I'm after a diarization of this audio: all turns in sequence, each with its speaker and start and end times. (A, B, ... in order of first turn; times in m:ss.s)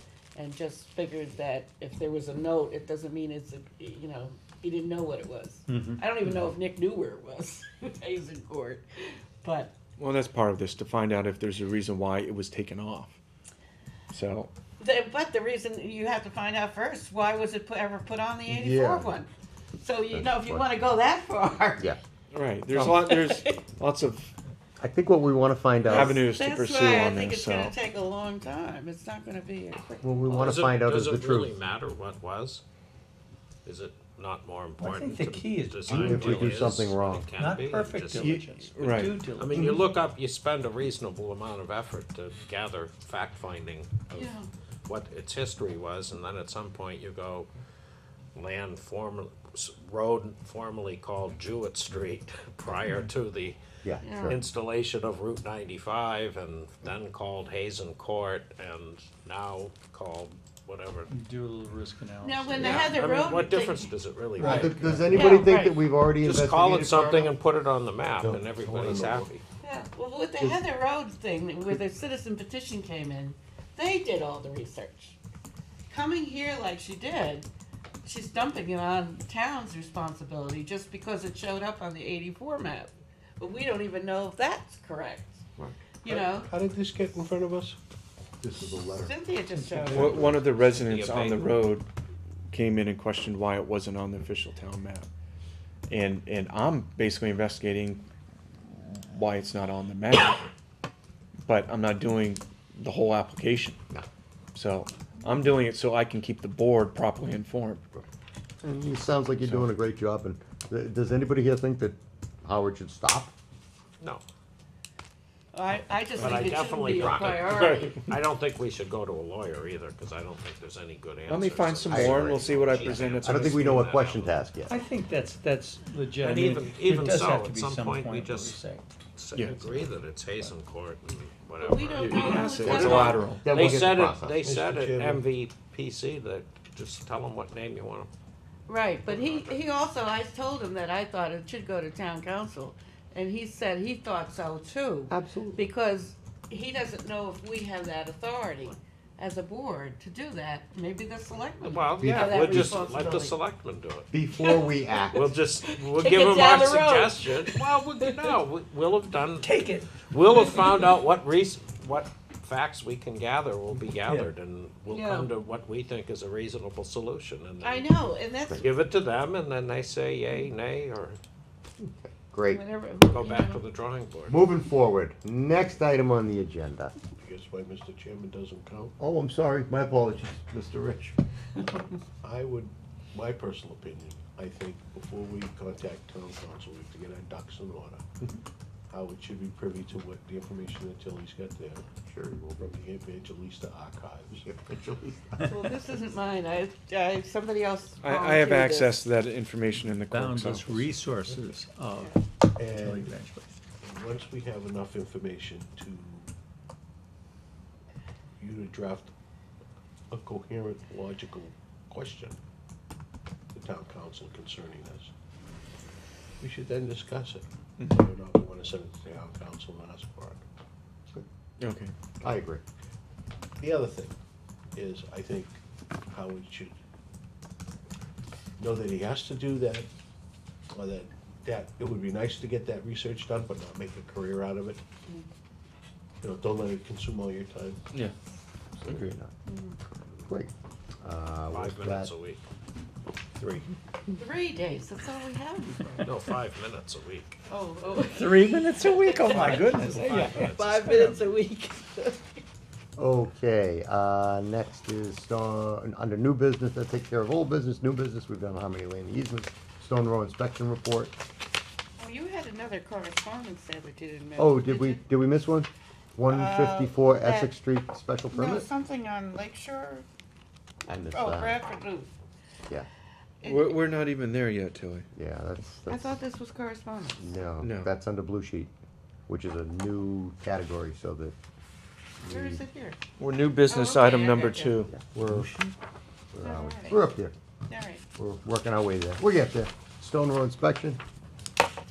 0:00.4-0:09.7 A
0:05.7-0:06.0 B
0:10.0-0:13.2 C
0:14.1-0:14.5 C
0:14.8-0:22.0 A
0:18.5-0:19.1 D
0:20.1-0:20.7 D
0:22.3-0:24.3 C
0:22.8-0:23.6 A
0:24.8-0:26.2 D
0:25.9-0:30.1 A
0:25.9-0:27.8 C
0:30.0-0:31.6 D
0:30.3-0:32.6 E
0:33.6-0:38.7 E
0:34.8-0:36.5 B
0:35.9-0:37.3 D
0:37.3-0:39.8 B
0:38.2-0:39.2 C
0:39.4-0:47.5 E
0:44.1-0:44.5 A
0:48.4-0:53.6 E
0:53.8-0:54.4 D
0:54.0-0:54.4 A
0:54.2-1:01.1 E
1:01.1-1:02.8 B
1:02.2-1:03.9 A
1:02.6-1:05.4 E
1:04.4-1:05.1 B
1:04.4-1:07.3 D
1:05.1-1:05.8 A
1:06.2-1:09.4 E
1:08.2-1:09.3 F
1:09.6-1:15.2 A
1:15.9-1:17.5 A
1:18.0-1:25.5 A
1:26.0-1:26.5 A
1:26.1-1:27.8 F
1:28.4-1:29.2 D
1:28.7-1:30.4 A
1:29.6-1:30.2 B
1:29.9-1:31.9 C
1:30.0-1:30.3 D
1:30.6-1:31.7 E
1:32.5-1:35.1 C
1:35.9-1:38.0 C
1:38.7-1:40.4 C
1:41.5-1:43.8 C
1:44.6-1:48.0 C
1:48.6-1:53.3 D
1:55.5-1:58.0 A
1:56.2-2:04.4 E
1:57.0-1:57.3 D
2:01.3-2:03.8 C
2:01.9-2:04.8 D
2:04.7-2:08.9 B
2:06.2-2:08.6 E
2:09.1-2:18.1 E
2:09.3-2:09.9 C
2:11.6-2:13.3 A
2:12.0-2:13.7 C
2:12.6-2:14.4 D
2:14.4-2:15.2 F
2:18.7-2:33.4 A
2:19.1-2:19.6 E
2:25.1-2:25.6 D
2:31.6-2:34.1 E
2:32.0-2:33.3 D
2:34.1-2:35.3 D
2:34.4-2:35.0 A
2:35.1-2:47.9 E
2:35.6-2:38.3 A
2:39.4-2:40.0 B
2:44.9-2:45.3 A
2:47.6-2:48.7 A
2:48.6-2:51.2 E
2:51.8-2:52.6 D
2:52.5-2:53.6 A
2:53.1-2:54.4 E
2:54.3-2:57.0 D
2:57.2-2:58.9 F
2:59.0-3:01.2 D
3:02.2-3:08.0 F
3:08.9-3:11.8 F
3:12.1-3:12.7 D
3:12.6-3:14.5 F
3:14.4-3:15.7 D
3:15.5-3:19.0 A
3:18.0-3:20.9 C
3:20.1-3:23.5 B
3:22.6-3:23.1 F
3:23.8-3:26.3 F
3:28.4-3:29.1 F
3:30.1-3:32.4 F
3:33.5-3:35.1 F
3:36.4-3:40.4 F
3:37.8-3:38.1 C
3:41.6-3:41.9 C
3:42.2-3:42.6 D
3:43.6-3:44.2 F
3:44.7-3:45.6 F
3:46.1-3:46.8 F
3:48.6-3:49.9 F
3:50.7-3:54.8 F
3:56.2-3:57.8 F
3:58.8-3:59.3 D
3:59.5-3:59.8 A
4:00.2-4:00.5 D
4:01.0-4:02.1 D
4:01.5-4:02.4 E
4:03.4-4:03.7 D
4:04.2-4:06.1 A
4:06.0-4:07.3 E
4:07.5-4:12.4 A
4:08.1-4:11.2 B
4:09.3-4:10.8 E
4:13.0-4:21.2 D
4:22.0-4:25.0 A
4:24.4-4:28.7 D
4:26.3-4:27.5 A
4:28.3-4:30.1 A
4:30.9-4:31.6 D
4:31.1-4:32.1 A
4:33.4-4:33.9 A
4:33.4-4:35.1 C
4:35.2-4:36.2 D
4:35.9-4:37.3 A
4:37.2-4:38.7 D
4:37.6-4:37.9 C
4:39.3-4:41.4 D
4:42.2-4:42.6 D
4:42.3-4:43.0 A
4:43.2-4:45.6 C
4:43.7-4:44.8 A
4:44.9-4:45.6 D
4:46.3-4:47.4 D
4:46.4-4:47.0 A
4:47.7-4:48.0 A
4:48.2-4:51.0 D